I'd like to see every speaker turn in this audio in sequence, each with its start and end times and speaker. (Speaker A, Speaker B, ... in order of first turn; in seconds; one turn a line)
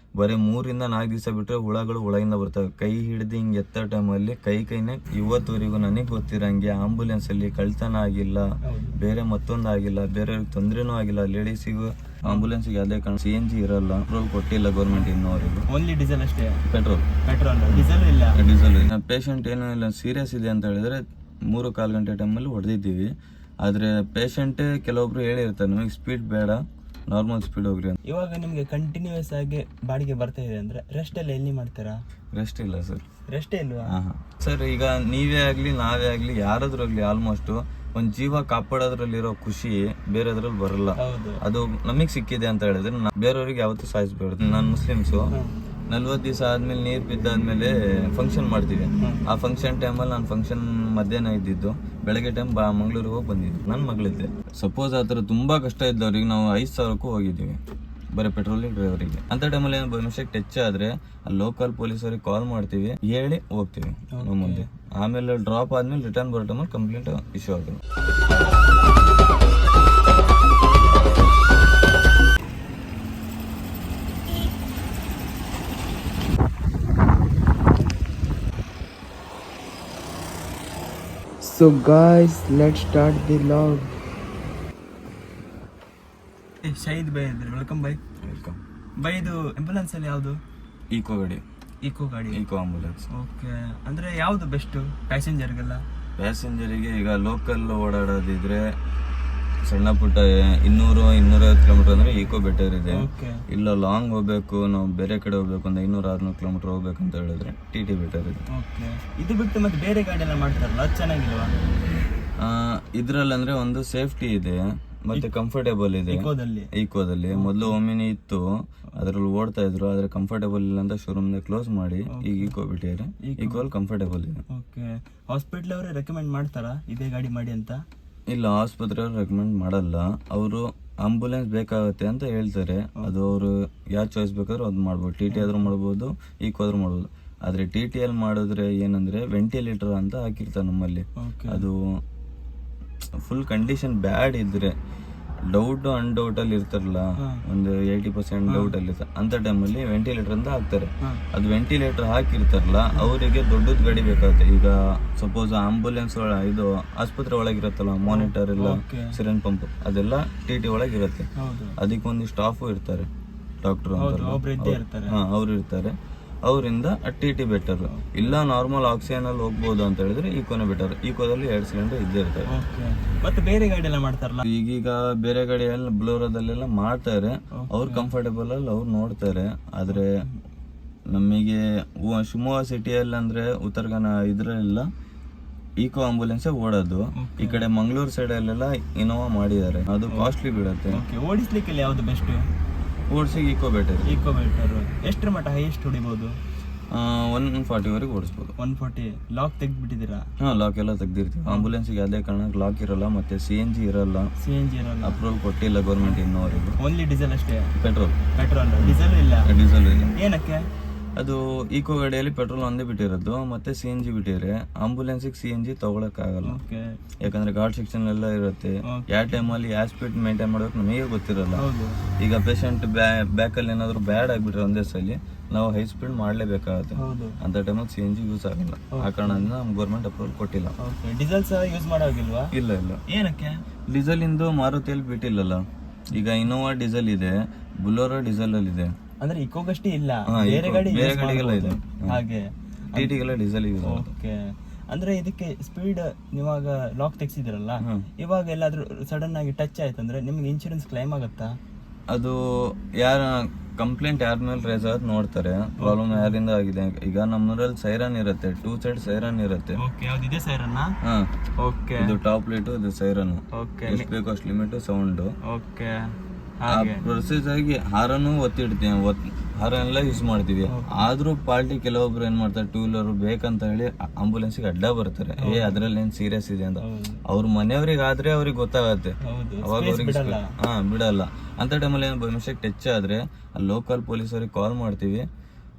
Speaker A: 0.2-15.7
Speaker B: 8.7-9.0
Speaker B: 12.2-12.5
Speaker B: 15.7-16.6
Speaker A: 16.7-17.1
Speaker B: 17.2-18.4
Speaker A: 17.7-28.0
Speaker B: 28.1-32.0
Speaker A: 32.4-33.0
Speaker B: 33.3-33.9
Speaker A: 33.9-45.3
Speaker B: 41.0-41.4
Speaker A: 45.9-57.6
Speaker A: 58.1-67.8
Speaker B: 64.2-64.7
Speaker C: 81.5-83.9
Speaker B: 82.4-83.2
Speaker B: 86.6-88.0
Speaker A: 88.2-88.6
Speaker B: 89.0-90.4
Speaker A: 90.9-91.4
Speaker B: 91.8-92.4
Speaker A: 92.3-93.1
Speaker B: 93.1-95.8
Speaker A: 96.2-98.7
Speaker A: 99.7-108.4
Speaker B: 102.9-103.4
Speaker B: 108.5-111.5
Speaker A: 112.4-124.4
Speaker B: 116.1-116.7
Speaker B: 117.3-117.8
Speaker B: 122.1-122.5
Speaker B: 123.2-123.7
Speaker B: 124.5-127.8
Speaker A: 128.3-142.0
Speaker B: 135.3-135.7
Speaker B: 141.2-141.7
Speaker A: 143.2-144.7
Speaker A: 145.5-163.1
Speaker B: 148.5-148.7
Speaker B: 158.1-159.2
Speaker B: 161.4-161.8
Speaker A: 163.6-165.9
Speaker B: 164.0-165.2
Speaker A: 166.5-172.5
Speaker B: 167.9-168.4
Speaker B: 172.5-174.4
Speaker A: 174.4-180.2
Speaker B: 177.6-178.1
Speaker B: 179.9-180.4
Speaker A: 181.1-184.9
Speaker A: 185.8-191.0
Speaker B: 187.2-187.6
Speaker B: 190.9-192.5
Speaker A: 193.1-194.1
Speaker B: 194.1-196.4
Speaker A: 196.9-198.5
Speaker B: 198.6-200.3
Speaker A: 200.4-204.3
Speaker B: 204.4-205.2
Speaker A: 205.0-206.8
Speaker B: 206.8-207.7
Speaker A: 207.8-208.2
Speaker B: 208.3-209.5
Speaker A: 208.8-210.1
Speaker B: 210.2-210.7
Speaker A: 211.2-216.6
Speaker B: 216.4-217.0
Speaker A: 217.2-221.7
Speaker B: 221.6-222.0
Speaker A: 222.2-230.8
Speaker B: 227.0-227.4
Speaker B: 228.9-229.5
Speaker B: 230.8-232.5
Speaker A: 232.5-233.0
Speaker B: 233.1-233.6
Speaker A: 233.9-238.9
Speaker B: 239.2-243.1
Speaker A: 240.3-242.2
Speaker A: 242.9-244.1
Speaker B: 243.8-251.6
Speaker A: 247.8-248.1
Speaker A: 252.1-259.8
Speaker B: 255.8-256.3
Speaker B: 259.8-261.0
Speaker A: 261.0-261.3
Speaker B: 261.6-262.1
Speaker A: 262.0-265.3
Speaker B: 263.5-264.1
Speaker B: 265.5-267.0
Speaker A: 266.7-285.3
Speaker B: 270.7-271.0
Speaker B: 275.4-275.8
Speaker B: 276.8-277.2
Speaker B: 279.2-280.5